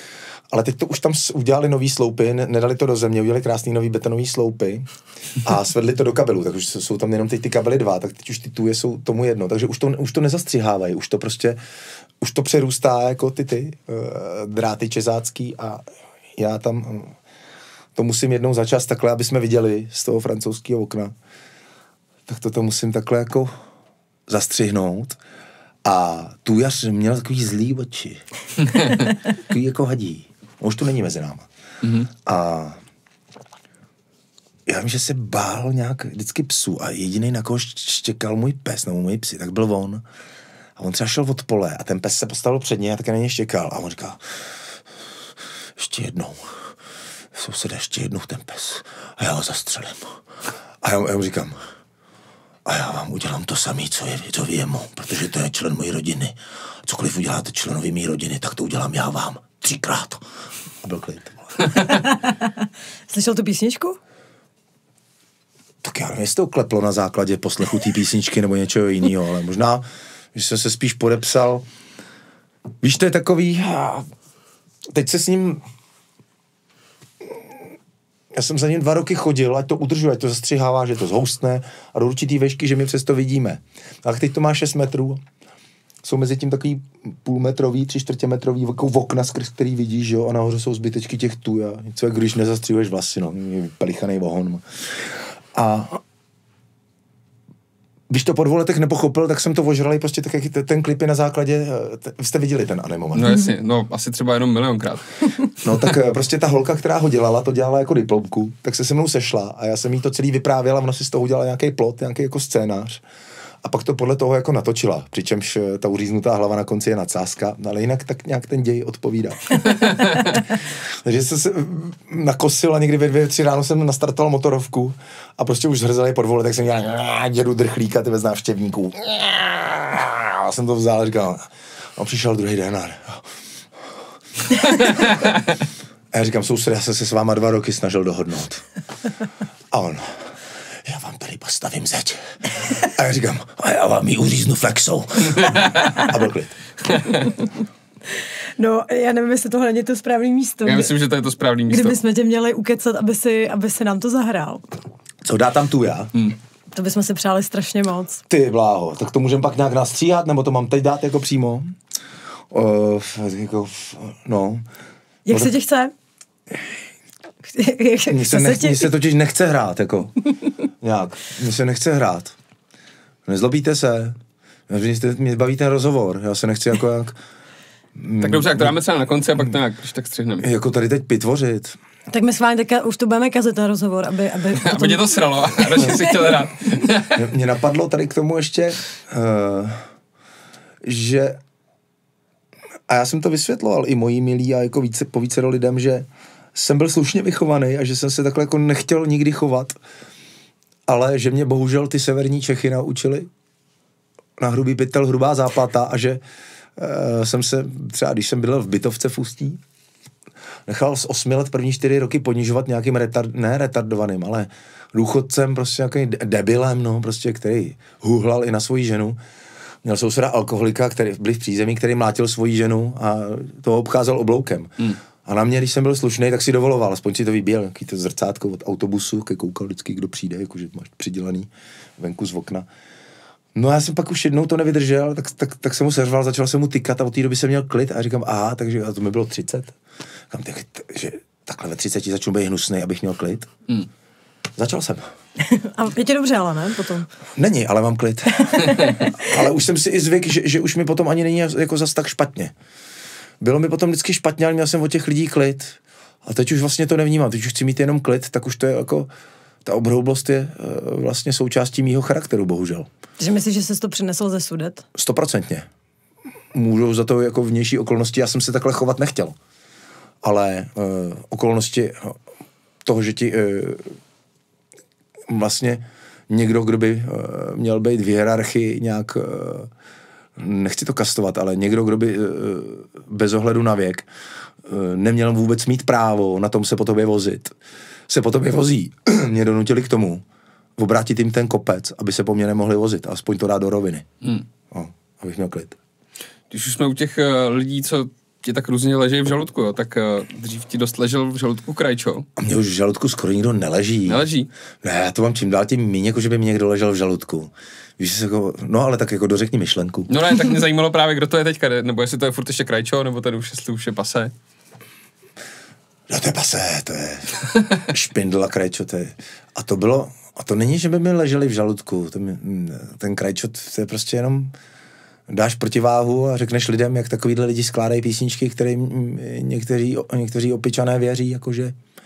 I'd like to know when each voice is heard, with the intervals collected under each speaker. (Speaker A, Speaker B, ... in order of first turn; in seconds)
Speaker A: 0.5-4.9, 5.4-11.6, 12.2-15.8, 16.4-17.2, 17.9-21.1, 22.3-23.5, 24.3-25.2, 25.9-28.2, 29.3-31.5, 32.2-32.8, 34.7-40.0, 40.8-44.2, 45.8-46.6, 47.3-50.2, 50.8-51.6, 52.6-60.2, 60.8-61.6, 65.8-71.7, 72.8-74.1, 74.9-75.7, 78.3-85.2, 86.0-96.0, 98.1-103.4, 105.6-113.0, 113.6-133.3, 136.1-138.7, 139.7-146.6, 155.2-156.1, 158.3-161.7, 162.5-164.6, 168.1-170.2, 170.8-172.3, 173.3-174.2, 174.7-177.2, 177.9-178.8, 180.4-181.8, 187.1-189.8, 190.8-191.4, 192.9-199.8, 200.9-203.3, 204.4-206.2, 206.8-209.6, 210.7-219.2, 219.8-232.7, 233.6-239.8, 240.3-243.5, 244.6-245.1, 247.4-252.5, 253.4-259.1, 259.6-262.9, 264.9-265.7, 266.5-269.4, 270.2-272.2, 272.8-274.0, 275.3-279.7, 280.4-284.1, 284.6-287.5, 288.1-290.2, 290.8-294.1, 294.7-295.8, 302.4-304.2, 304.8-310.1, 316.1-324.6, 325.3-331.8
Speaker B: 31.8-32.1, 103.1-105.1, 145.4-145.8, 150.7-152.0, 178.2-180.5, 184.6-187.2, 296.5-302.3, 304.1-304.5, 310.1-314.3
Speaker C: 61.9-62.5, 63.1-64.0, 148.6-150.9, 151.7-154.7, 156.7-158.2, 165.3-165.9, 167.5-168.9, 182.1-186.0, 245.4-247.1, 248.4-249.3, 263.2-264.8